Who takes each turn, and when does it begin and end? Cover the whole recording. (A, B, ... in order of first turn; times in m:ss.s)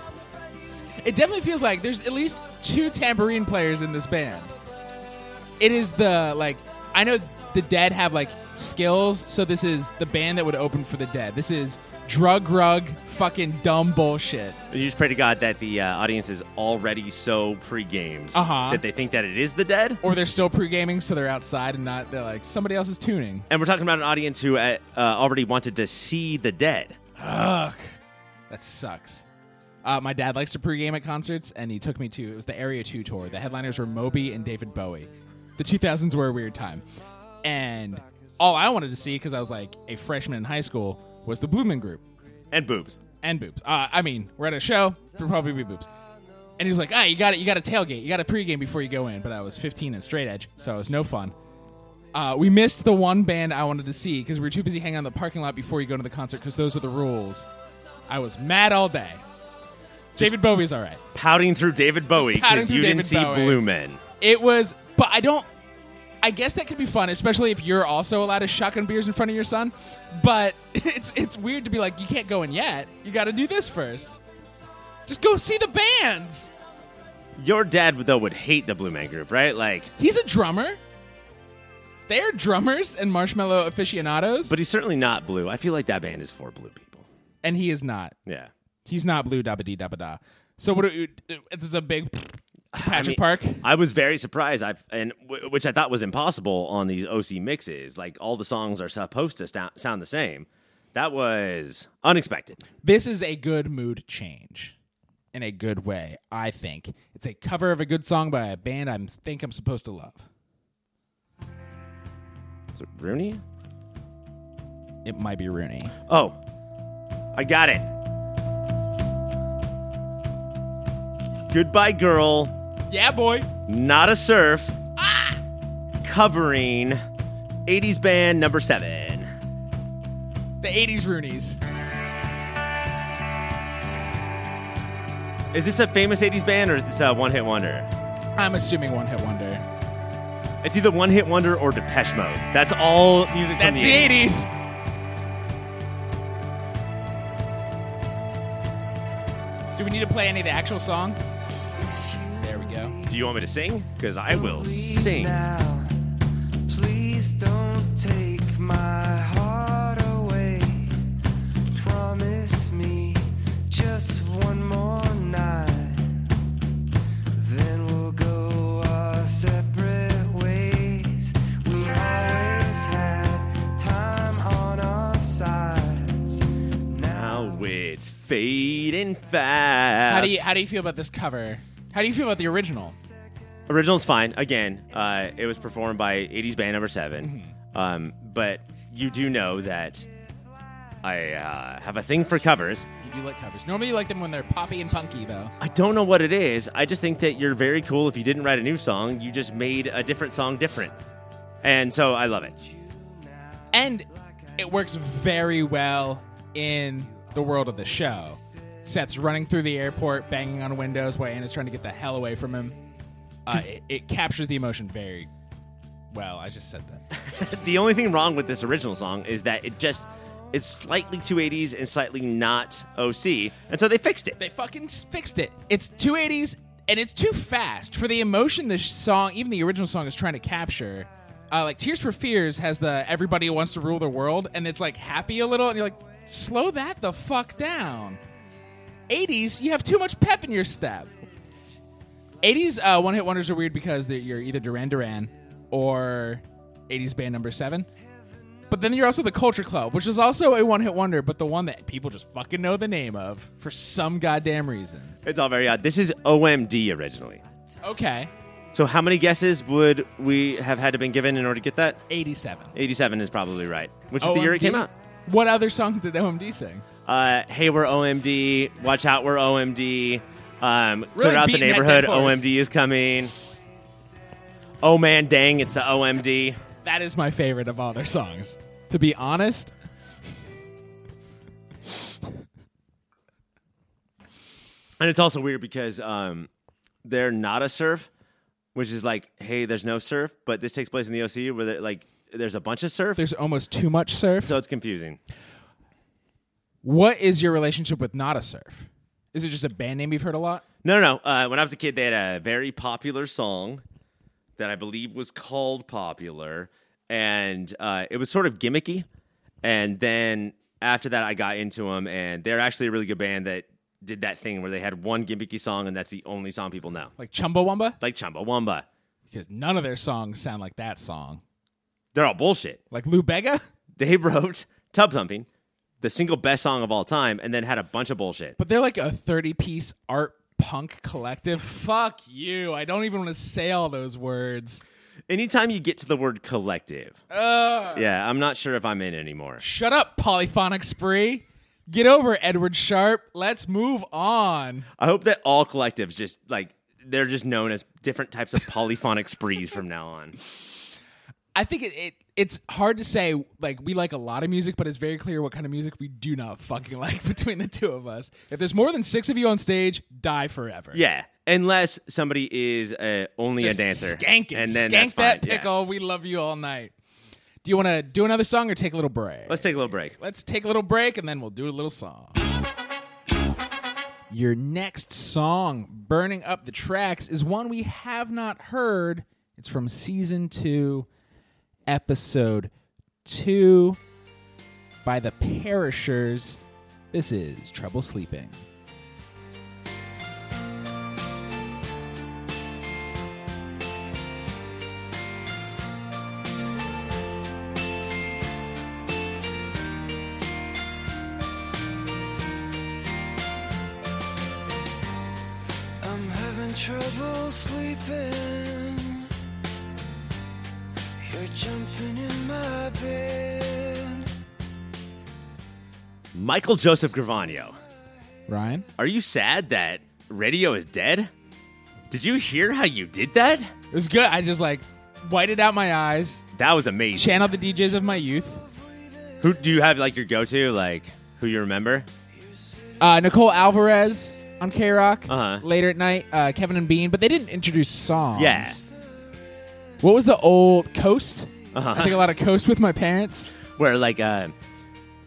0:01.0-0:04.5 A
0:05.6-0:14.6 A
0:14.7-0:20.0 B
0:18.3-0:18.8 A
0:20.0-0:23.5 A
0:23.5-0:27.0 B
0:27.2-0:28.0 A
0:28.5-0:29.2 A
0:29.8-0:36.8 A
0:37.4-0:42.0 A
0:42.5-0:43.0 B
0:43.2-0:45.9 A
0:46.6-0:51.3 A
0:52.1-0:57.5 A
0:58.1-0:59.2 A
1:00.2-1:01.0 A
1:01.1-1:04.0 B
1:02.2-1:03.6 A
1:04.2-1:05.5 A
1:06.2-1:14.2 A
1:15.1-1:16.5 A
1:17.4-1:19.9 B
1:20.0-1:20.8 A
1:22.1-1:24.5 A
1:24.5-1:27.1 B
1:27.4-1:28.1 A
1:28.2-1:28.5 B
1:28.8-1:33.6 A
1:32.7-1:42.6 B
1:42.8-1:44.8 A
1:45.3-1:50.2 A
1:52.7-1:53.4 B
1:55.0-1:55.9 A
1:56.1-1:56.4 B
1:57.3-1:57.9 B
2:01.5-2:02.5 B
2:02.9-2:03.5 A
2:03.7-2:04.8 B
2:05.0-2:05.4 A
2:06.0-2:07.0 B
2:07.6-2:09.3 B
2:10.6-2:11.6 A
2:15.5-2:17.9 B
2:18.4-2:19.6 A
2:20.6-2:24.3 B
2:23.6-2:24.5 A
2:29.8-2:31.2 A
2:31.8-2:33.2 C
2:32.4-2:32.9 A
2:33.1-2:35.4 B
2:34.2-2:36.1 C
2:36.6-2:41.1 C
2:41.7-2:46.2 C
2:47.3-2:57.7 C
2:57.1-3:00.4 B
3:00.1-3:03.0 A
3:03.7-3:10.1 B
3:07.2-3:07.5 A
3:11.0-3:12.9 B
3:13.0-3:15.5 A
3:15.6-3:20.9 B
3:21.6-3:22.5 B
3:22.8-3:23.6 C
3:23.7-3:24.1 A
3:24.6-3:32.8 A
3:33.4-3:35.3 A
3:36.1-3:37.0 A
3:37.2-3:44.4 B
3:44.4-3:58.2 A
3:59.1-4:01.1 A
4:02.4-4:07.9 A
4:08.7-4:15.2 A
4:15.2-4:17.4 B
4:17.8-4:18.3 A
4:18.7-4:22.0 B
4:22.1-4:22.7 A
4:22.7-4:24.9 B
4:24.2-4:26.8 A
4:27.0-4:33.3 B
4:31.1-4:32.5 A
4:34.8-4:36.6 B
4:36.8-4:39.7 A
4:45.0-4:46.5 B
4:47.0-4:48.1 B
4:48.7-4:53.2 B
4:53.2-4:54.5 A
4:54.4-4:55.2 B
4:56.8-5:00.6 A
5:00.8-5:03.8 B
5:04.6-5:09.1 B
5:09.6-5:17.1 B
5:17.2-5:18.0 A
5:18.0-5:18.8 B
5:19.3-5:21.4 A
5:22.1-5:22.8 B
5:22.9-5:23.6 A
5:24.0-5:25.5 B
5:26.0-5:28.6 B
5:28.6-5:34.8 A
5:35.3-5:37.2 B
5:37.3-5:38.1 A
5:37.9-5:39.6 B
5:39.6-5:44.9 A
5:45.0-5:50.4 B
5:51.5-6:01.0 A
6:00.9-6:05.7 B
6:03.6-6:06.9 A
6:07.6-6:09.7 A
6:09.5-6:10.2 B
6:10.2-6:12.4 A
6:14.3-6:21.1 A
6:21.9-6:22.7 A
6:23.2-6:24.0 A
6:25.0-6:26.6 A
6:27.1-6:28.6 A
6:46.0-6:49.3 C
6:51.2-6:54.3 C
6:56.3-6:57.8 B
6:58.5-6:58.9 A
6:59.0-7:01.3 B
7:02.1-7:03.7 B
7:03.9-7:06.4 A
7:06.5-7:07.5 B
7:07.2-7:08.6 A
7:09.4-7:12.1 B
7:13.0-7:18.8 A
7:15.3-7:15.6 B
7:18.3-7:18.8 B
7:20.0-7:23.5 A
7:21.7-7:22.2 B
7:23.7-7:24.5 B